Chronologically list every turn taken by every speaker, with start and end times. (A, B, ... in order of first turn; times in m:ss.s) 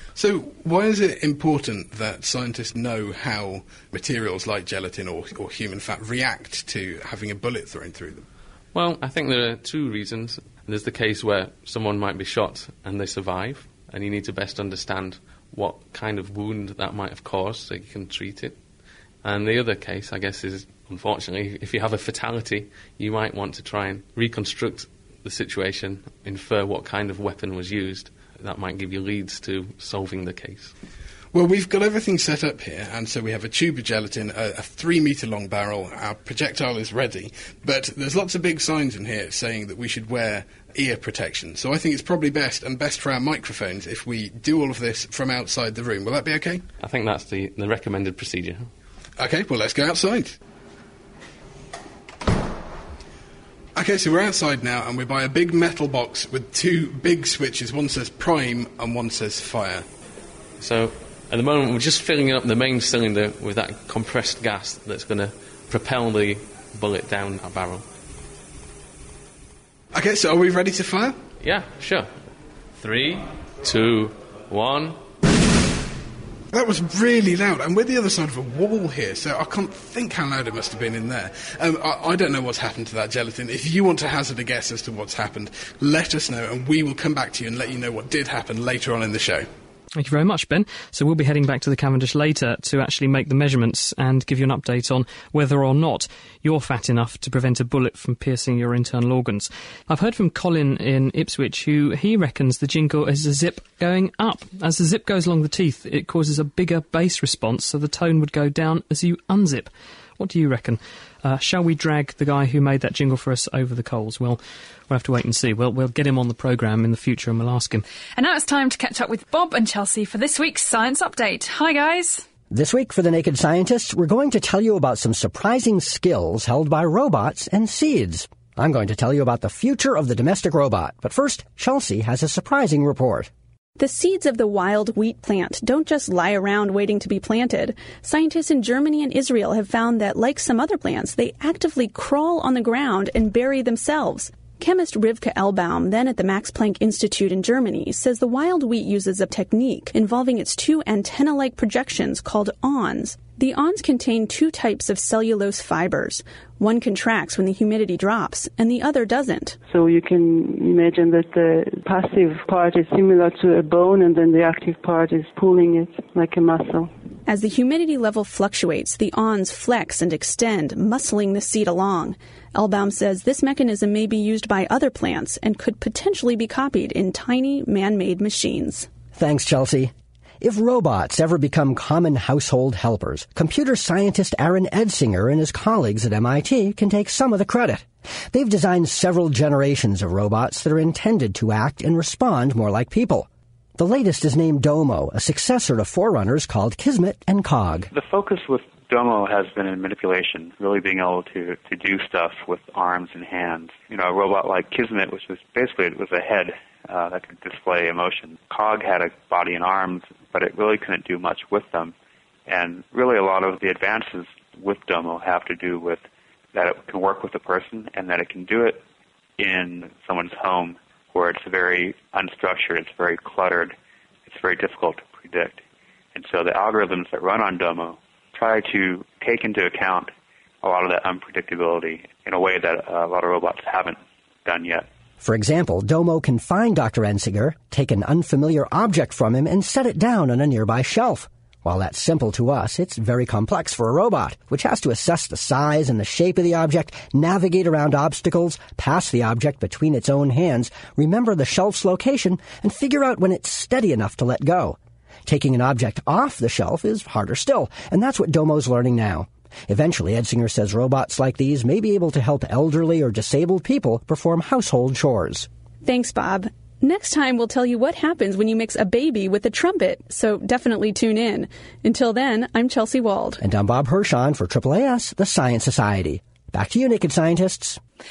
0:00.2-0:08.2 A
0:08.7-0:18.6 B
0:19.2-0:30.7 B
0:31.3-0:46.6 A
0:46.8-0:48.7 B
0:49.2-0:50.4 A
0:53.8-0:59.8 A
1:00.6-1:07.9 B
1:09.9-1:11.2 A
1:11.4-1:12.2 B
1:12.8-1:15.0 B
1:16.5-1:29.5 A
1:30.0-1:57.8 C
1:58.2-2:02.2 D
2:02.5-2:13.3 E
2:13.8-2:39.6 F
2:39.7-2:46.9 G
2:47.3-2:58.9 F
2:59.1-3:17.9 E
3:17.9-3:31.9 H
3:32.5-3:38.8 H
3:39.4-3:43.8 H
3:44.3-3:45.6 H
3:46.2-3:54.9 H
3:55.2-4:25.5 E
4:25.8-4:33.4 F
4:33.4-4:37.8 E